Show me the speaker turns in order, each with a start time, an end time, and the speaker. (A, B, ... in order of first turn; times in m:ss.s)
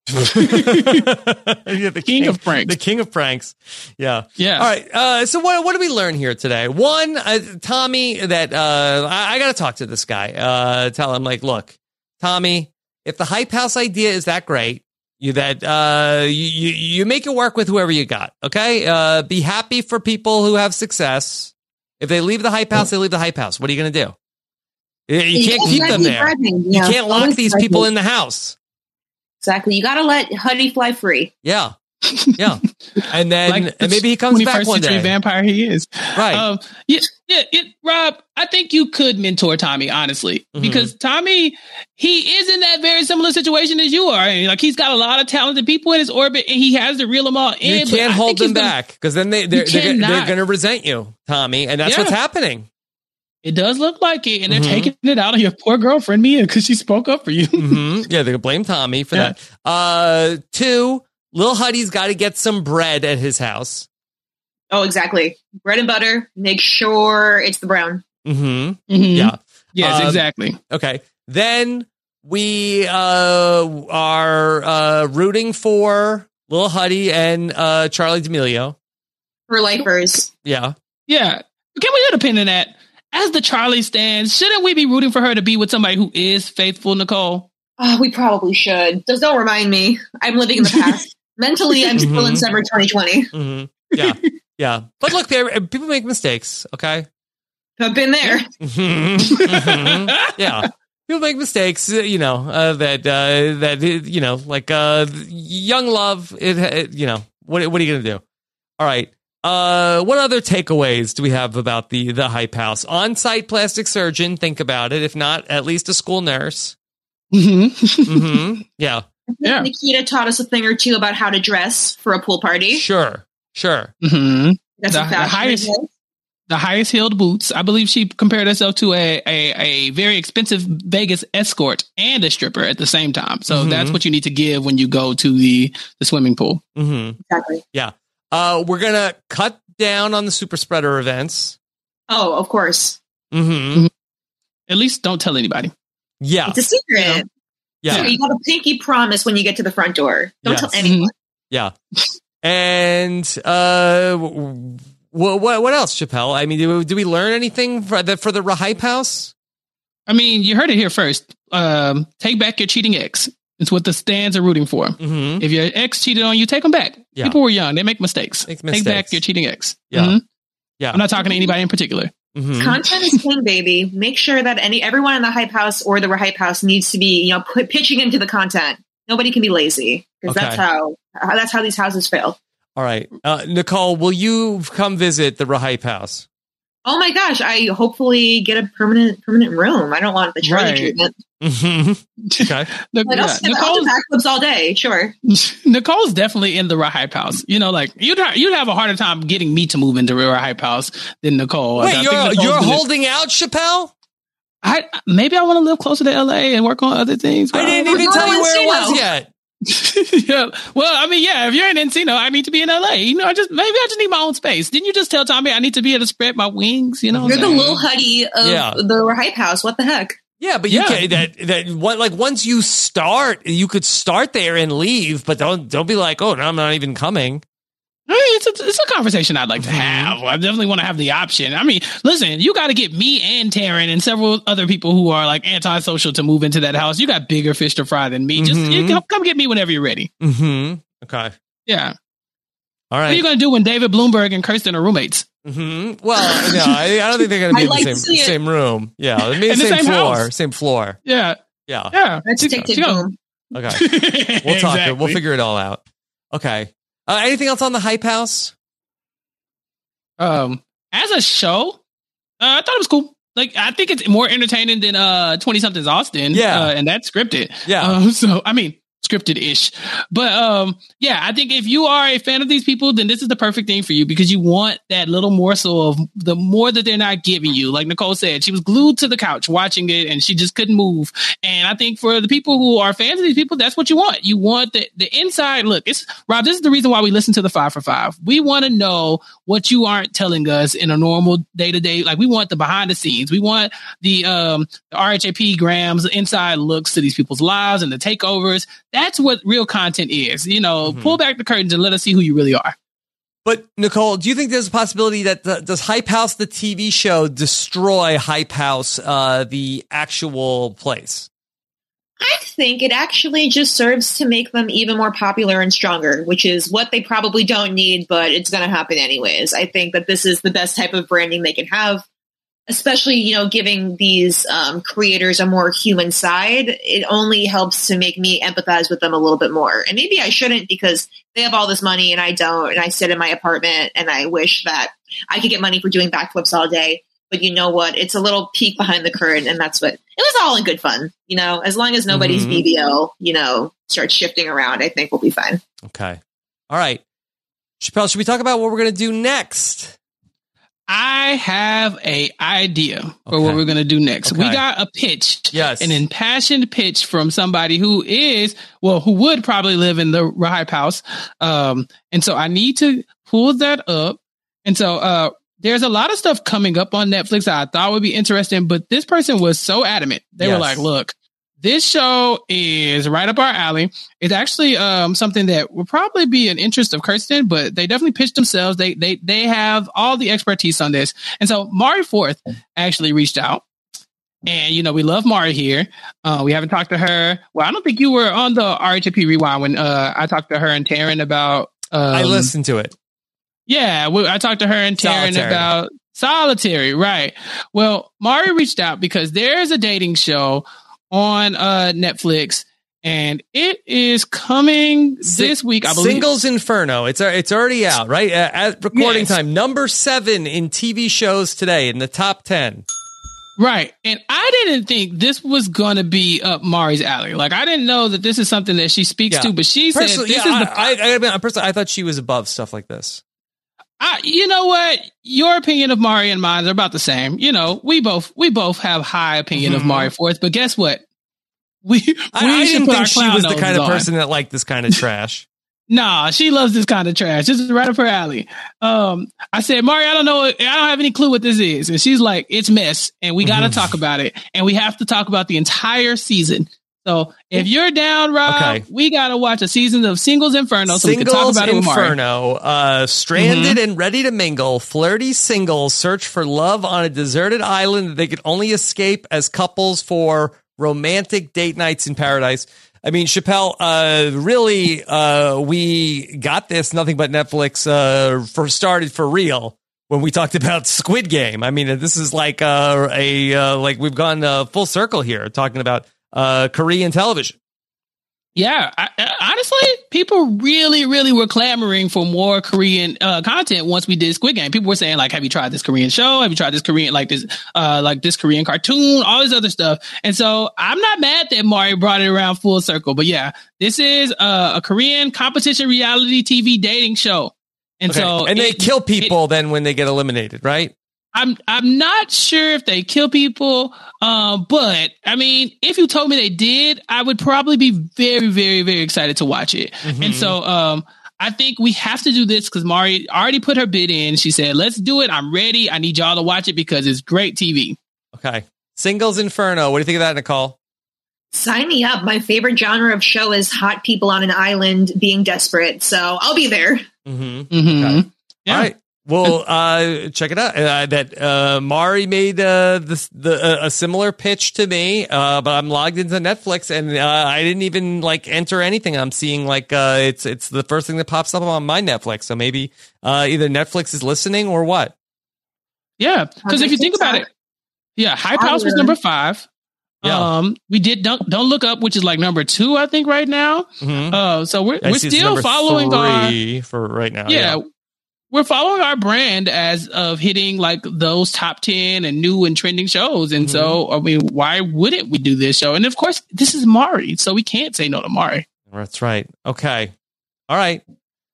0:00.2-0:24.2 A
0:00.3-0:01.0 B
0:02.0-0:02.7 B
0:04.4-0:04.7 B
0:25.1-0:28.6 A
0:25.3-0:27.9 C
0:25.6-0:26.0 B
0:29.4-0:31.3 C
0:31.4-0:31.7 A
0:32.0-0:48.7 B
0:32.3-0:35.1 A
0:36.1-0:36.5 A
0:40.5-0:40.9 A
0:47.6-0:52.7 A
0:49.5-0:50.3 B
0:51.8-0:52.1 B
0:53.4-0:57.8 B
0:54.5-0:54.9 A
0:57.6-1:03.9 A
1:04.7-1:08.0 C
1:08.2-1:18.8 A
1:08.9-1:10.6 B
1:19.5-1:20.3 C
1:20.4-1:20.7 A
1:21.1-1:27.5 B
1:27.8-1:33.3 C
1:30.6-1:31.0 B
1:32.0-1:32.4 A
1:33.3-1:37.1 A
1:33.9-1:34.3 B
1:37.8-1:38.5 C
1:38.6-1:48.2 A
1:39.3-1:40.6 B
1:48.8-1:56.7 A
1:57.3-1:58.4 B
1:58.1-1:59.0 A
1:59.3-2:02.8 C
1:59.4-1:59.7 B
2:02.7-2:03.9 A
2:04.0-2:05.7 B
2:04.8-2:05.9 C
2:06.5-2:16.6 B
2:13.5-2:14.0 A
2:16.8-2:17.2 A
2:17.3-2:17.6 C
2:17.7-2:21.6 A
2:22.1-2:23.0 C
2:23.3-2:23.9 A
2:24.7-2:25.7 B
2:26.2-2:26.6 A
2:26.5-2:27.2 C
2:27.0-2:27.2 B
2:27.8-2:28.1 A
2:27.9-2:28.1 B
2:27.9-2:31.1 C
2:30.4-2:30.8 A
2:30.8-2:31.1 B
2:32.4-2:39.3 A
2:40.1-2:50.2 B
2:45.0-2:45.4 A
2:48.5-2:49.2 A
2:50.8-2:51.0 A
2:50.9-2:52.1 B
2:51.2-2:51.5 C
2:52.3-2:52.8 A
2:52.6-3:02.4 C
3:00.3-3:00.6 A
3:02.8-3:06.2 A
3:06.8-3:11.1 C
3:10.4-3:10.9 B
3:11.4-3:12.7 A
3:12.3-3:13.9 B
3:13.0-3:15.1 C
3:15.3-3:22.8 B
3:21.8-3:23.9 A
3:24.6-3:28.2 B
3:27.5-3:29.3 A
3:27.7-3:29.0 C
3:29.6-3:37.8 B
3:37.1-3:37.8 A
3:37.2-3:40.2 C
3:38.4-3:38.8 A
3:40.4-3:47.4 A
3:40.7-3:41.2 B
3:48.1-4:00.1 B
3:49.6-3:50.2 A
3:58.4-3:59.0 A
4:00.2-4:01.3 A
4:01.7-4:01.9 B
4:02.9-4:03.2 A
4:03.1-4:05.2 B
4:05.4-4:11.0 A
4:06.2-4:06.9 B
4:07.5-4:08.3 C
4:09.2-4:10.3 B
4:11.0-4:11.4 B
4:11.7-4:12.7 A
4:11.9-4:13.1 B
4:12.2-4:13.1 C
4:13.5-4:13.9 A
4:13.7-4:15.2 B
4:14.4-4:18.5 A
4:20.2-4:21.8 B
4:22.4-5:02.7 B
4:26.3-4:26.7 A
4:27.6-4:28.0 A
5:00.8-5:01.2 A
5:03.4-5:11.3 A
5:12.2-5:22.0 C
5:22.7-5:45.6 C
5:42.1-5:42.6 A
5:45.8-5:46.2 A
5:46.7-5:47.0 A
5:47.8-5:50.0 A
5:50.9-6:23.6 B
5:53.3-5:53.6 A
5:54.2-5:54.6 A
5:55.5-5:56.0 A
6:10.4-6:10.8 A
6:24.4-6:32.5 B
6:32.1-6:32.9 A
6:33.7-6:46.4 B
6:35.0-6:35.7 A
6:45.2-6:52.8 A
6:48.9-6:49.3 B
6:53.6-7:00.9 B
6:59.3-7:03.2 A
7:04.0-7:11.0 B
7:09.5-7:10.1 A
7:11.8-7:14.1 B
7:12.3-7:15.4 A
7:15.9-7:32.1 B
7:23.4-7:24.0 A
7:28.4-7:28.8 A
7:30.9-7:57.6 A
7:33.4-7:33.8 B
7:58.6-8:19.3 B
8:18.1-8:20.9 A
8:21.3-8:38.0 B
8:30.0-8:30.6 A
8:38.3-8:40.8 A
8:41.5-8:47.0 C
8:47.2-9:05.1 A
8:47.7-8:48.9 B
9:06.2-9:07.5 B
9:06.6-9:07.4 C
9:08.2-9:09.7 B
9:08.6-9:09.2 C
9:10.2-9:16.6 B
9:10.2-9:10.5 A
9:14.0-9:14.4 A
9:15.0-9:17.8 A
9:17.5-9:17.8 B
9:18.5-9:28.6 B
9:23.6-9:24.0 A
9:28.9-9:30.1 A
9:30.7-9:31.0 A